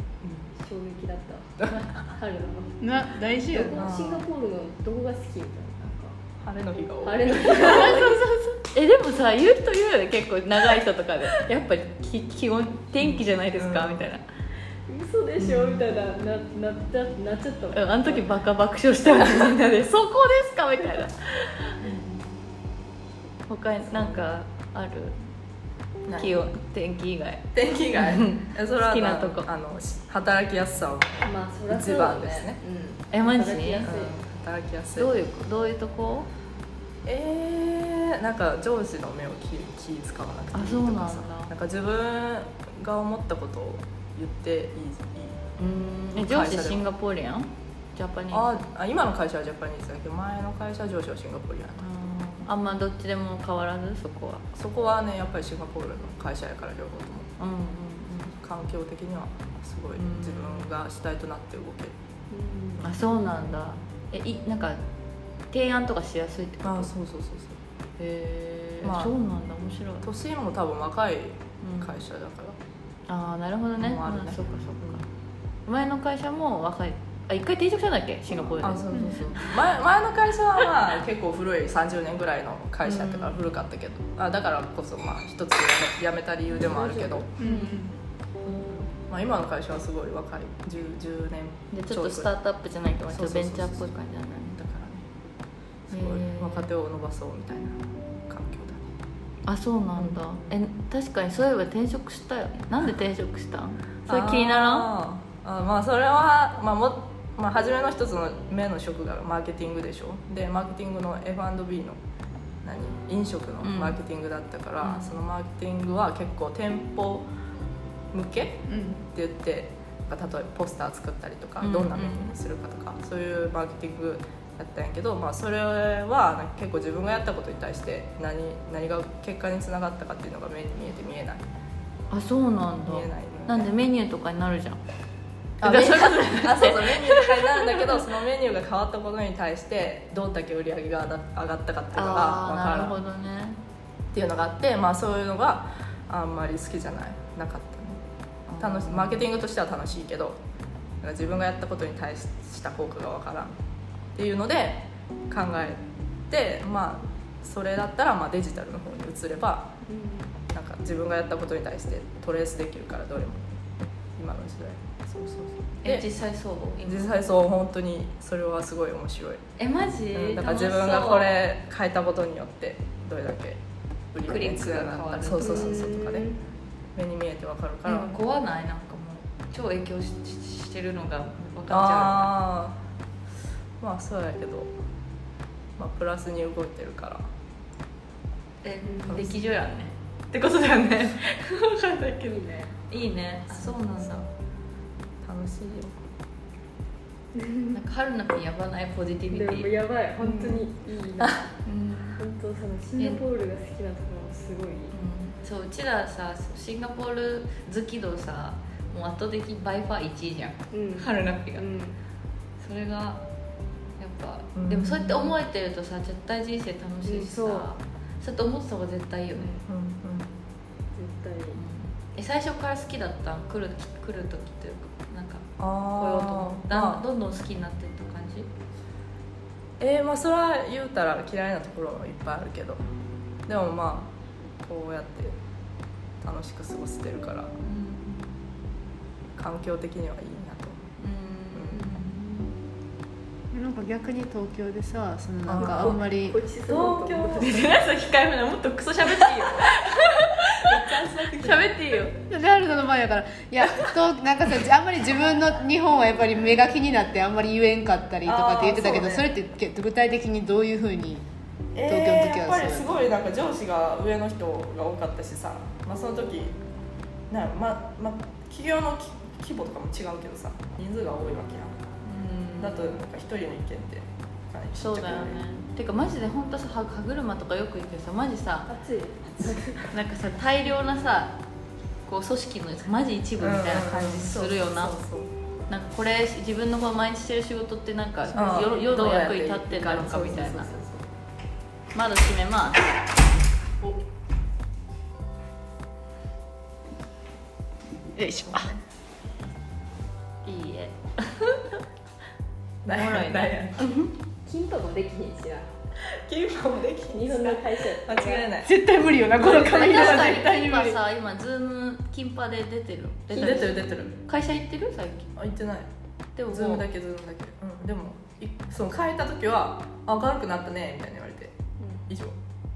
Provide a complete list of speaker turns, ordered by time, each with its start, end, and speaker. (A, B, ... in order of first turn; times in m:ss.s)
0:00.5-0:02.8 A
0:01.7-0:02.0 B
0:02.8-0:03.9 C
0:03.5-0:06.2 A
0:03.8-0:04.2 D
0:06.4-0:08.0 D
0:07.0-0:08.2 A
0:07.5-0:14.2 B
0:13.0-0:14.0 D
0:14.9-0:18.2 A
0:15.4-0:15.8 B
0:17.7-0:21.9 B
0:23.5-0:25.2 B
0:26.0-0:26.4 D
0:26.2-0:29.5 B
0:27.5-0:32.6 D
0:31.2-0:34.2 A
0:33.1-0:33.9 B
0:33.8-0:35.1 D
0:35.0-0:36.3 B
0:37.0-0:45.4 D
0:40.5-0:41.5 B
0:45.6-0:48.5 B
0:46.2-0:46.8 D
0:48.3-0:51.9 D
0:51.8-0:54.4 B
0:54.5-0:57.3 D
0:57.4-0:58.4 B
0:58.4-1:02.0 D
1:00.0-1:00.7 B
1:02.3-1:02.9 A
1:02.8-1:04.8 B
1:05.5-1:06.9 B
1:06.6-1:07.6 D
1:08.0-1:10.1 B
1:08.8-1:09.1 D
1:10.0-1:12.6 D
1:11.6-1:12.0 B
1:13.1-1:15.1 B
1:13.8-1:15.0 D
1:15.6-1:19.5 B
1:18.4-1:27.3 D
1:18.9-1:19.2 C
1:22.8-1:23.4 B
1:26.5-1:27.3 A
1:27.4-1:27.9 C
1:27.4-1:27.9 B
1:28.4-1:28.8 B
1:28.7-1:32.3 D
1:31.7-1:35.0 B
1:33.1-1:33.9 D
1:35.9-1:38.8 D
1:35.9-1:36.7 B
1:39.4-1:44.9 B
1:40.0-1:40.6 D
1:44.0-1:52.0 D
1:52.6-1:57.3 D
1:53.6-1:54.0 B
1:54.8-1:55.1 B
1:58.1-2:11.4 D
1:58.7-1:59.0 C
2:01.6-2:02.3 B
2:12.1-2:14.8 B
2:12.8-2:13.7 D
2:15.6-2:23.0 D
2:15.6-2:18.0 B
2:21.9-2:23.6 B
2:24.1-2:28.0 D
2:28.5-2:29.2 B
2:28.6-2:30.4 D
2:31.0-2:33.6 D
2:34.2-2:39.8 D
2:39.8-2:40.3 A
2:40.5-2:46.0 D
2:45.8-2:47.1 B
2:46.8-2:49.4 D
2:49.6-2:51.3 B
2:50.1-2:53.6 D
2:54.1-2:56.4 D
2:54.2-2:55.8 B
2:55.4-2:56.4 A
2:56.9-2:58.1 D
2:57.8-3:02.3 B
3:01.7-3:02.8 D
3:03.8-3:04.7 D
3:05.8-3:07.3 D
3:08.6-3:14.3 B
3:08.8-3:09.4 A
3:12.2-3:12.7 A
3:13.5-3:14.3 D
3:15.2-3:16.0 D
3:17.3-3:17.8 A
3:17.7-3:19.7 B
3:19.3-3:21.5 A
3:21.6-3:22.2 B
3:22.2-3:24.9 A
3:23.0-3:23.2 B
3:24.9-3:31.6 B
3:30.7-3:32.0 A
3:32.6-3:33.2 B
3:34.0-3:39.5 B
3:34.5-3:35.3 D
3:37.0-3:37.7 A
3:39.4-3:39.6 A
3:39.6-3:40.3 D
3:41.0-3:41.6 A
3:41.5-3:48.5 B
3:45.6-3:47.0 D
3:49.8-3:52.8 D
3:53.5-3:54.1 D
3:54.6-3:55.4 D
3:56.2-3:57.5 D
3:57.6-3:58.3 B
3:59.4-4:00.9 D
4:01.0-4:02.4 B
4:01.5-4:02.0 D
4:01.8-4:02.4 A
4:03.5-4:06.4 C
4:05.4-4:06.0 D
4:05.6-4:07.6 A
4:06.6-4:07.5 D
4:07.3-4:12.2 B
4:10.7-4:11.8 D
4:12.3-4:21.2 C
4:18.2-4:19.3 D
4:21.7-4:26.6 D
4:21.8-4:23.1 C
4:27.3-4:31.9 D
4:32.0-4:33.0 B
4:32.6-4:35.4 D
4:34.7-4:38.7 B
4:38.7-4:39.9 A
4:39.9-4:41.4 B
4:42.0-4:45.0 B
4:43.4-4:45.3 D
4:45.7-4:50.7 B
4:48.3-4:51.1 D
4:51.9-4:53.3 B
4:58.1-4:58.7 C
4:58.5-4:58.8 D
5:00.4-5:01.8 B
5:02.8-5:03.8 D
5:02.9-5:04.1 B
5:04.4-5:05.7 A
5:06.0-5:08.7 D
5:07.1-5:08.5 A
5:08.6-5:11.0 C
5:09.3-5:10.4 D
5:09.6-5:15.3 B
5:13.3-5:14.1 D
5:15.4-5:15.9 D
5:16.4-5:16.8 B
5:16.5-5:21.6 D
5:22.1-5:22.4 D